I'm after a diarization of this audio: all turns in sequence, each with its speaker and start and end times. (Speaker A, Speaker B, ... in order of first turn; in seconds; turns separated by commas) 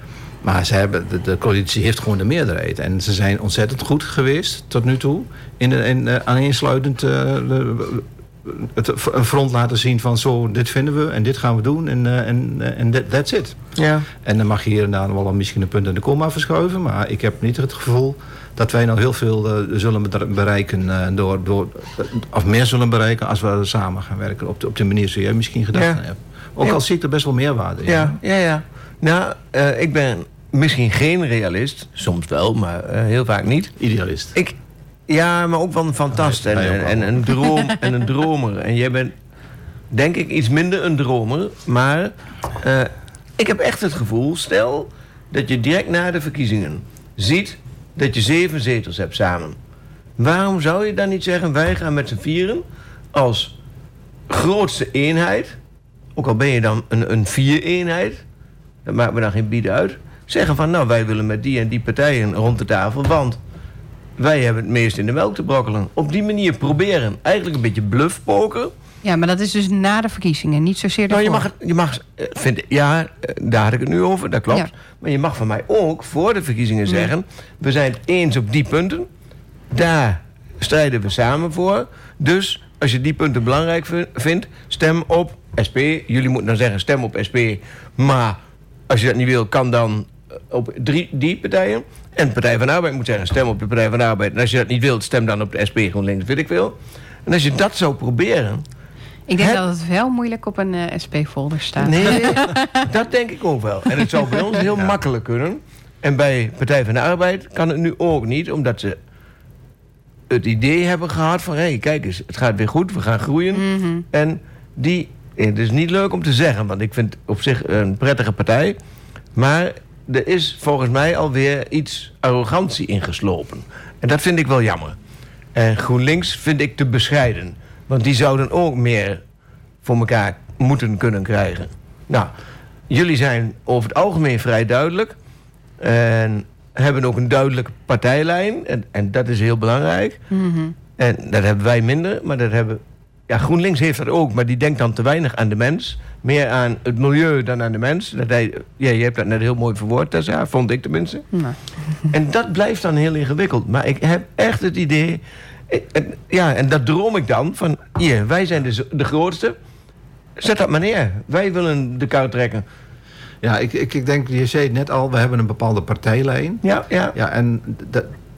Speaker A: 0.4-13.6, Speaker B: 13.8-14.1, Speaker A: 14.2-28.2, Speaker B: 25.7-26.0, Speaker B: 27.9-33.7, Speaker A: 33.8-34.4, Speaker B: 35.1-39.1, Speaker A: 36.1-37.3, Speaker B: 39.9-49.5, Speaker B: 50.2-52.6, Speaker B: 53.1-53.5, Speaker B: 54.3-55.5, Speaker B: 56.1-58.2, Speaker B: 58.9-63.4, Speaker B: 64.2-68.7, Speaker C: 69.0-71.5, Speaker B: 71.1-79.1, Speaker B: 79.7-88.4, Speaker B: 88.9-96.7, Speaker B: 97.2-98.6, Speaker C: 99.3-102.8, Speaker B: 99.4-99.6, Speaker B: 101.8-109.0, Speaker B: 110.3-118.8, Speaker C: 113.5-114.0, Speaker B: 119.3-124.9, Speaker B: 125.5-129.2, Speaker B: 129.8-132.3, Speaker B: 132.9-135.1, Speaker B: 135.8-140.2, Speaker C: 140.3-140.7, Speaker B: 140.9-151.3, Speaker B: 152.1-159.6, Speaker B: 160.4-162.6, Speaker A: 163.4-168.1, Speaker B: 166.6-167.1